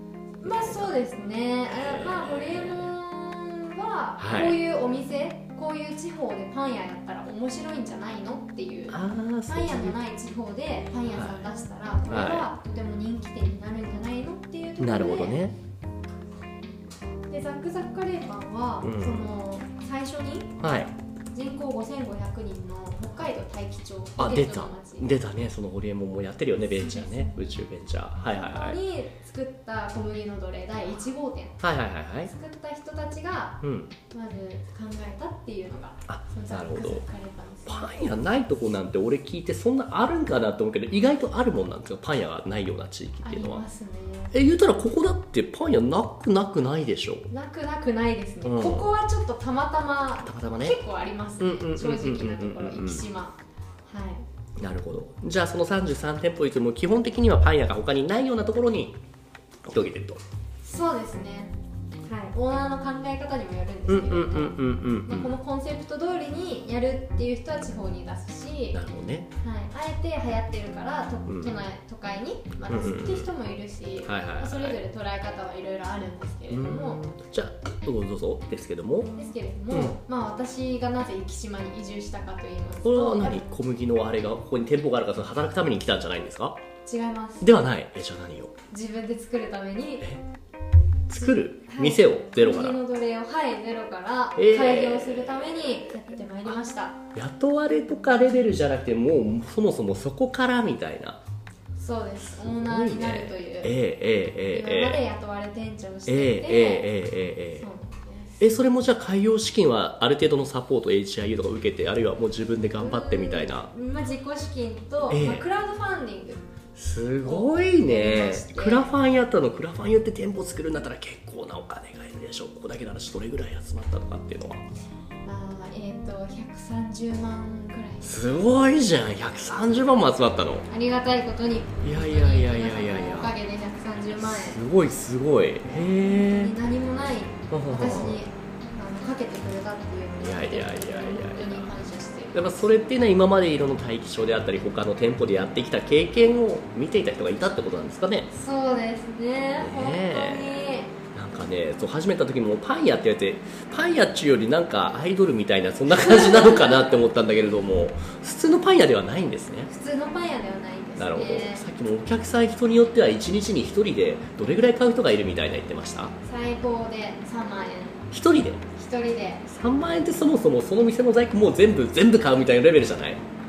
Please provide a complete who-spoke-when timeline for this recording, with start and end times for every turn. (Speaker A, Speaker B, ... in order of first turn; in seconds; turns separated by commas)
Speaker A: 0.4-0.9, Speaker B: 0.4-15.4, Speaker A: 1.7-2.9, Speaker A: 4.2-4.6, Speaker A: 8.9-10.0, Speaker A: 11.1-11.5, Speaker A: 12.1-12.5, Speaker A: 14.8-15.6, Speaker B: 17.3-20.6, Speaker A: 18.8-19.2, Speaker A: 20.6-20.9, Speaker B: 21.3-25.1, Speaker A: 24.2-28.8, Speaker B: 26.9-27.3, Speaker B: 28.3-31.6, Speaker A: 31.6-32.3, Speaker B: 32.2-37.9, Speaker A: 33.6-33.9, Speaker A: 36.1-37.0, Speaker A: 37.6-43.6, Speaker B: 43.2-44.3, Speaker A: 44.3-47.3, Speaker B: 47.3-54.2, Speaker A: 48.4-48.9, Speaker A: 50.2-50.8, Speaker A: 51.4-53.0, Speaker A: 54.6-59.0, Speaker A: 59.6-60.2, Speaker B: 60.6-68.8, Speaker A: 63.9-65.3, Speaker A: 68.7-69.3, Speaker B: 69.4-77.0, Speaker A: 71.2-71.6, Speaker A: 72.7-73.3, Speaker A: 74.0-74.8, Speaker A: 76.5-79.1, Speaker B: 79.1-83.4, Speaker A: 79.7-80.0, Speaker A: 82.8-86.6, Speaker B: 86.8-87.5, Speaker A: 87.4-88.5, Speaker B: 88.7-90.1, Speaker A: 91.1-92.8, Speaker B: 91.2-97.0, Speaker A: 94.3-95.6, Speaker A: 97.1-101.2, Speaker B: 101.8-103.8, Speaker A: 102.3-105.0, Speaker B: 104.5-106.9, Speaker A: 106.0-107.7, Speaker B: 107.6-108.5, Speaker A: 108.4-113.7, Speaker B: 112.8-116.4, Speaker A: 115.1-115.5, Speaker A: 116.8-124.7, Speaker B: 117.2-118.9, Speaker B: 125.2-128.1, Speaker A: 128.0-130.7, Speaker B: 130.7-134.6, Speaker A: 131.8-133.3, Speaker A: 134.2-136.5, Speaker B: 135.7-142.7, Speaker A: 137.5-138.2, Speaker A: 140.2-141.7, Speaker A: 142.3-148.3, Speaker B: 148.3-150.9, Speaker A: 149.6-150.6, Speaker A: 151.1-159.7, Speaker B: 156.0-156.8, Speaker B: 159.7-161.6, Speaker A: 161.0-166.1, Speaker B: 166.2-168.0, Speaker A: 168.1-168.6, Speaker B: 168.7-169.5, Speaker A: 169.5-173.2